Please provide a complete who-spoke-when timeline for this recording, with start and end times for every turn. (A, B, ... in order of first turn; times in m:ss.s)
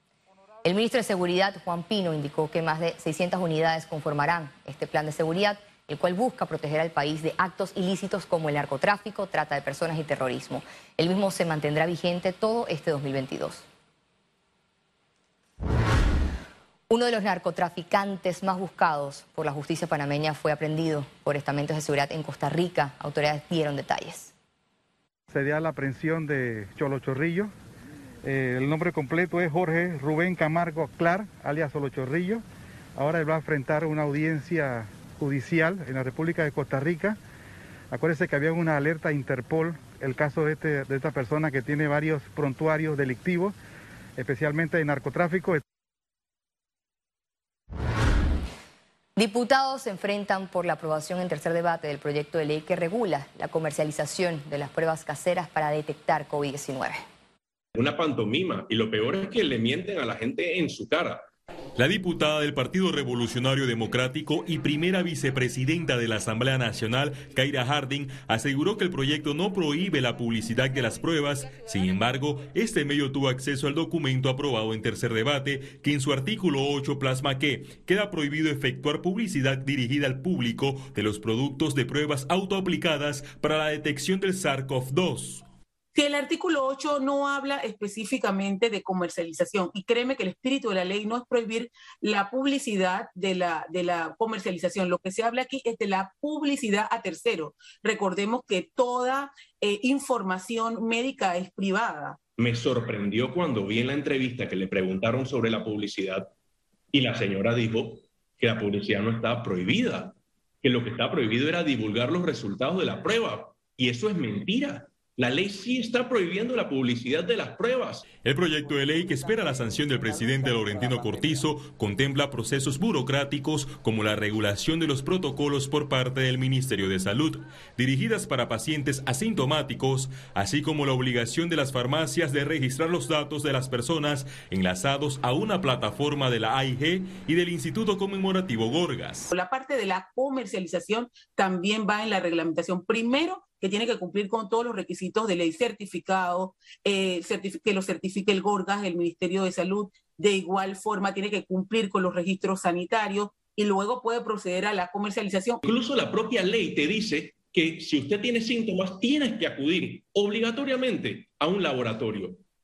0:00.6-0:13.7 A
0:16.9-0:24.3 A
0:25.3-0:27.5 B
0:28.2-0:32.4 B
0:33.0-0:37.2 B
0:37.9-0:43.6 B
0:44.2-0:45.6 B
0:49.2-0:57.0 A
0:57.8-1:01.3 C
1:01.8-1:25.4 D
1:26.0-1:42.2 E
1:42.4-1:46.3 C
1:46.9-1:58.1 C
1:58.2-2:19.3 D
2:19.3-2:35.7 E
2:35.6-2:42.4 C